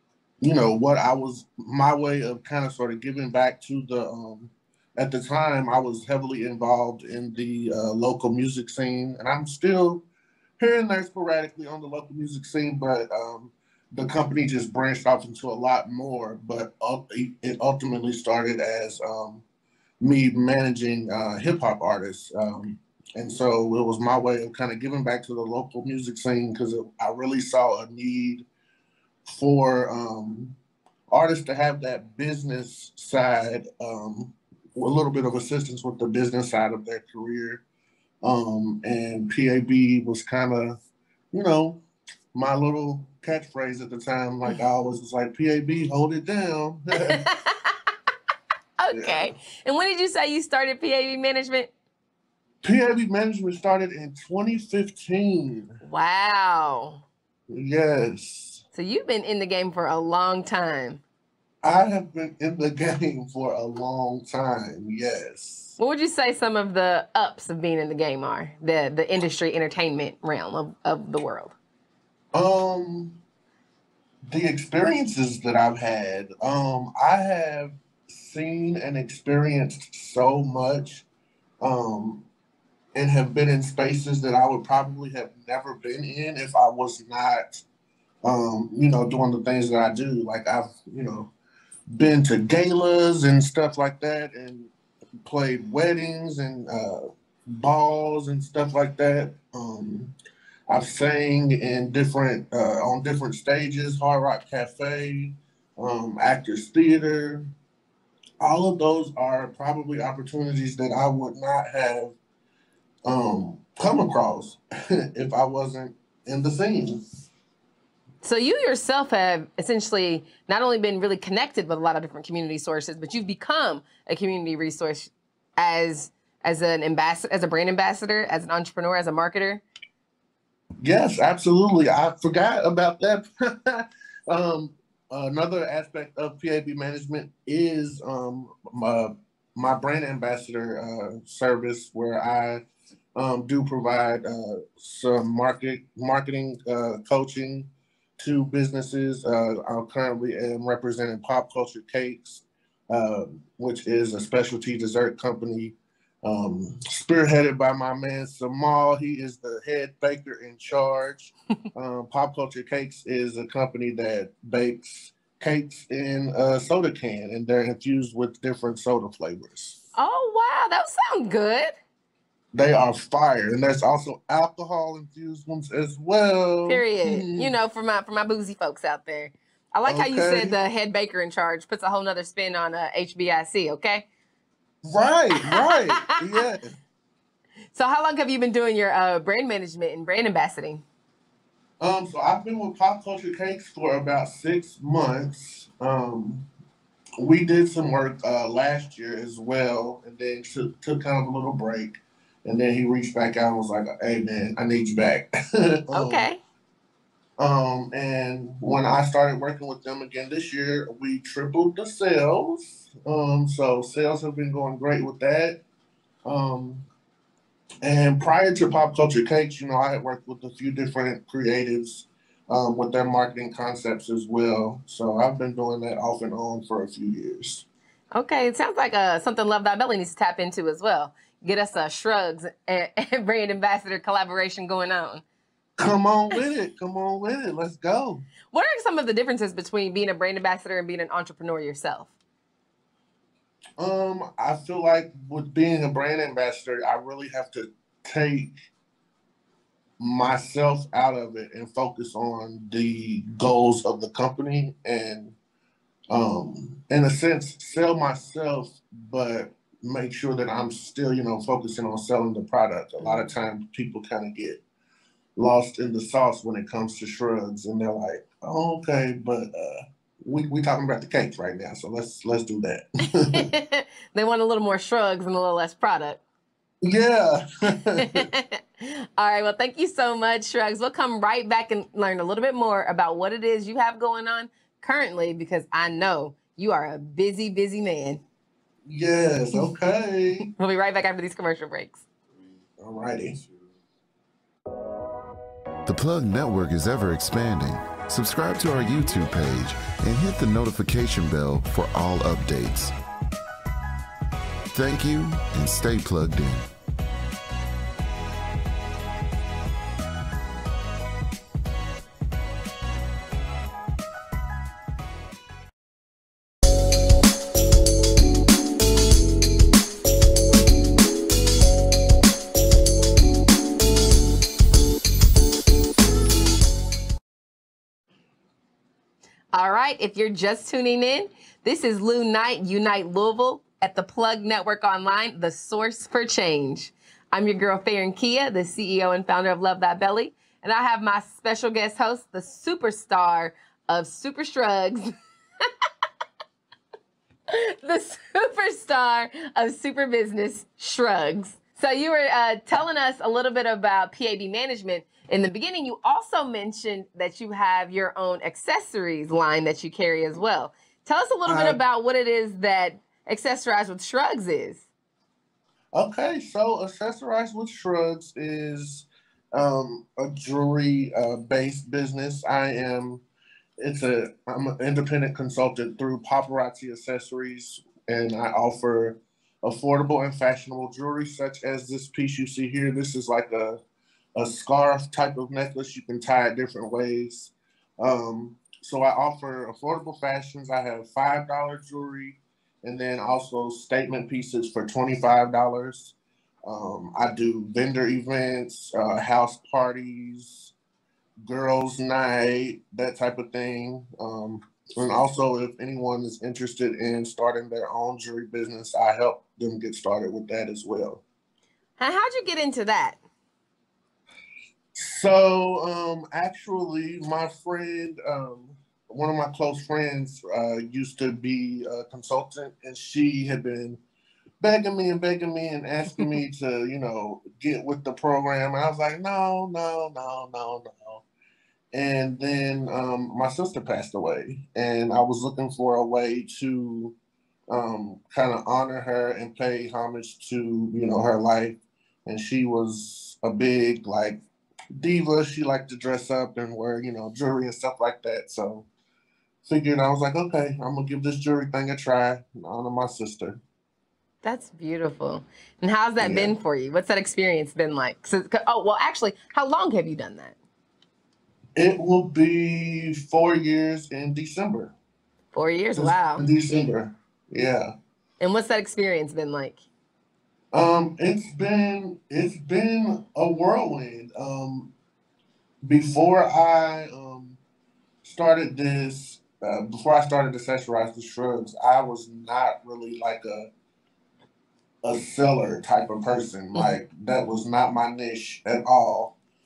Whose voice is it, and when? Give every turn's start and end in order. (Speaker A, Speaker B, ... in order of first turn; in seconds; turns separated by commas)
Speaker A: 0.4-10.0, Speaker A: 10.6-19.4, Speaker A: 20.0-28.5, Speaker A: 29.3-30.6, Speaker A: 31.1-37.6, Speaker A: 38.2-40.8, Speaker A: 41.3-41.8, Speaker A: 42.3-47.2, Speaker B: 47.0-47.7, Speaker B: 48.8-51.7, Speaker A: 48.9-49.3, Speaker A: 52.6-55.8, Speaker B: 55.8-57.0, Speaker A: 57.5-58.6, Speaker B: 58.7-61.0, Speaker A: 61.6-65.8, Speaker B: 65.8-71.5, Speaker A: 72.3-73.2, Speaker A: 74.3-81.0, Speaker A: 81.6-82.2, Speaker A: 82.9-87.6, Speaker A: 88.2-91.3, Speaker A: 91.9-94.7, Speaker A: 95.2-100.2, Speaker A: 100.7-107.5, Speaker A: 108.4-112.2, Speaker A: 113.0-117.0, Speaker B: 118.2-129.6, Speaker A: 130.8-142.6, Speaker A: 143.2-169.8, Speaker B: 169.9-171.8, Speaker A: 172.5-177.5, Speaker B: 176.7-184.1, Speaker A: 179.9-180.6, Speaker A: 184.9-186.8, Speaker B: 185.4-186.1, Speaker B: 187.7-190.8, Speaker A: 191.8-196.5, Speaker A: 197.2-206.3, Speaker B: 205.9-206.4, Speaker A: 207.4-215.6, Speaker A: 216.2-216.9, Speaker A: 217.8-227.7, Speaker B: 228.2-235.2, Speaker A: 235.8-238.3, Speaker B: 238.5-242.1, Speaker A: 243.8-248.6, Speaker A: 250.0-255.4, Speaker A: 256.1-264.6, Speaker A: 265.4-273.5, Speaker B: 273.3-276.2, Speaker A: 276.8-278.3, Speaker B: 278.0-288.2, Speaker A: 288.9-290.5, Speaker B: 290.5-292.0, Speaker A: 292.8-293.4, Speaker C: 295.9-302.9, Speaker C: 304.7-306.7, Speaker B: 329.5-345.1, Speaker B: 347.5-364.9, Speaker A: 361.5-361.8, Speaker A: 365.9-373.2, Speaker A: 373.8-383.8, Speaker A: 384.4-400.7, Speaker A: 401.4-411.2, Speaker B: 412.0-413.2, Speaker A: 414.9-424.0, Speaker A: 424.6-431.2, Speaker A: 431.9-437.1, Speaker A: 437.7-444.4, Speaker A: 445.0-448.9, Speaker A: 449.6-453.6, Speaker B: 454.4-460.6, Speaker A: 456.2-456.5, Speaker A: 461.8-464.9, Speaker B: 465.5-466.4, Speaker A: 466.0-467.9, Speaker B: 468.4-469.8, Speaker A: 470.7-474.9, Speaker A: 475.8-477.6, Speaker A: 478.2-483.7, Speaker A: 485.0-489.4